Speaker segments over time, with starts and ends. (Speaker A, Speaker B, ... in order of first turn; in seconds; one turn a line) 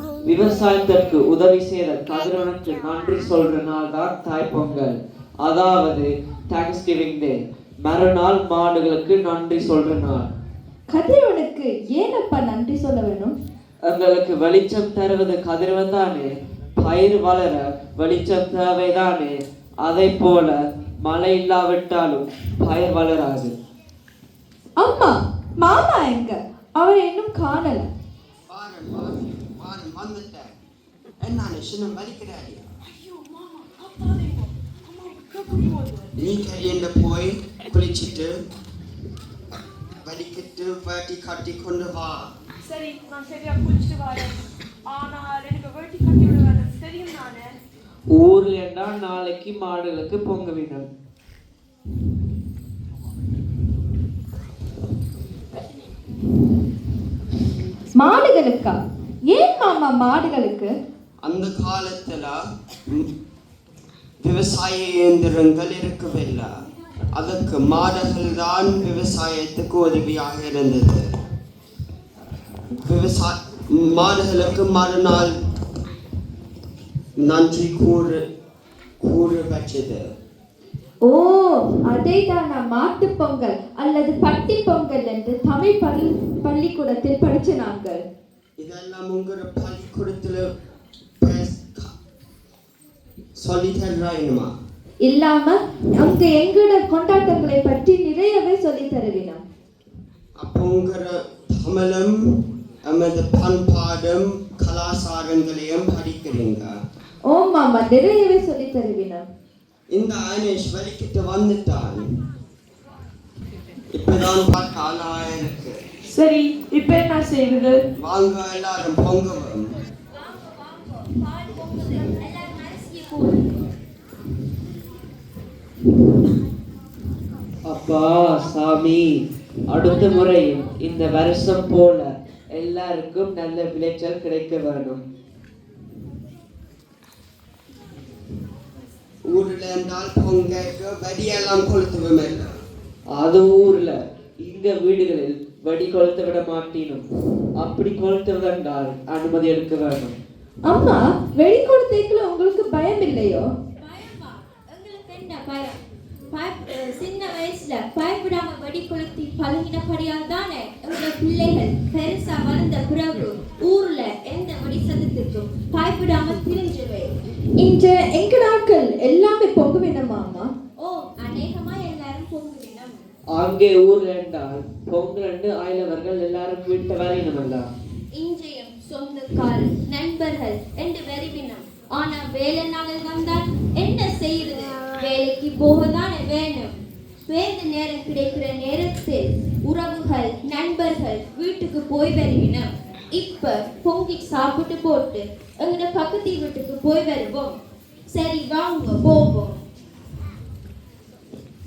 Speaker A: 0.2-4.9
Speaker A: 5.5-6.0
Speaker A: 6.5-10.2
Speaker B: 10.9-13.3
Speaker A: 13.8-23.5
Speaker B: 24.8-27.9
Speaker C: 28.5-30.6
Speaker C: 31.2-32.6
Speaker D: 32.8-36.1
Speaker C: 36.2-38.4
Speaker C: 40.0-42.3
Speaker D: 42.6-47.5
Speaker A: 48.1-50.9
Speaker B: 58.0-58.8
Speaker B: 59.3-60.7
Speaker C: 61.2-62.4
Speaker C: 64.2-66.5
Speaker C: 67.1-71.1
Speaker C: 72.8-75.3
Speaker C: 77.2-78.2
Speaker C: 79.0-80.1
Speaker B: 81.0-88.0
Speaker C: 88.6-90.4
Speaker C: 91.2-91.9
Speaker C: 93.4-94.5
Speaker B: 95.0-99.4
Speaker C: 100.4-102.2
Speaker C: 102.9-106.7
Speaker B: 107.3-109.2
Speaker C: 109.9-112.1
Speaker C: 113.9-115.8
Speaker D: 116.2-117.7
Speaker C: 118.0-119.7
Speaker E: 120.1-123.7
Speaker A: 127.6-135.0
Speaker E: 130.1-130.4
Speaker C: 139.3-142.5
Speaker A: 143.1-147.1
Speaker A: 147.6-150.2
Speaker B: 150.6-153.5
Speaker E: 153.8-155.8
Speaker E: 156.3-167.1
Speaker B: 167.6-170.5
Speaker E: 170.8-173.0
Speaker A: 173.3-177.7
Speaker E: 178.1-186.7
Speaker E: 187.3-197.6
Speaker E: 198.1-199.6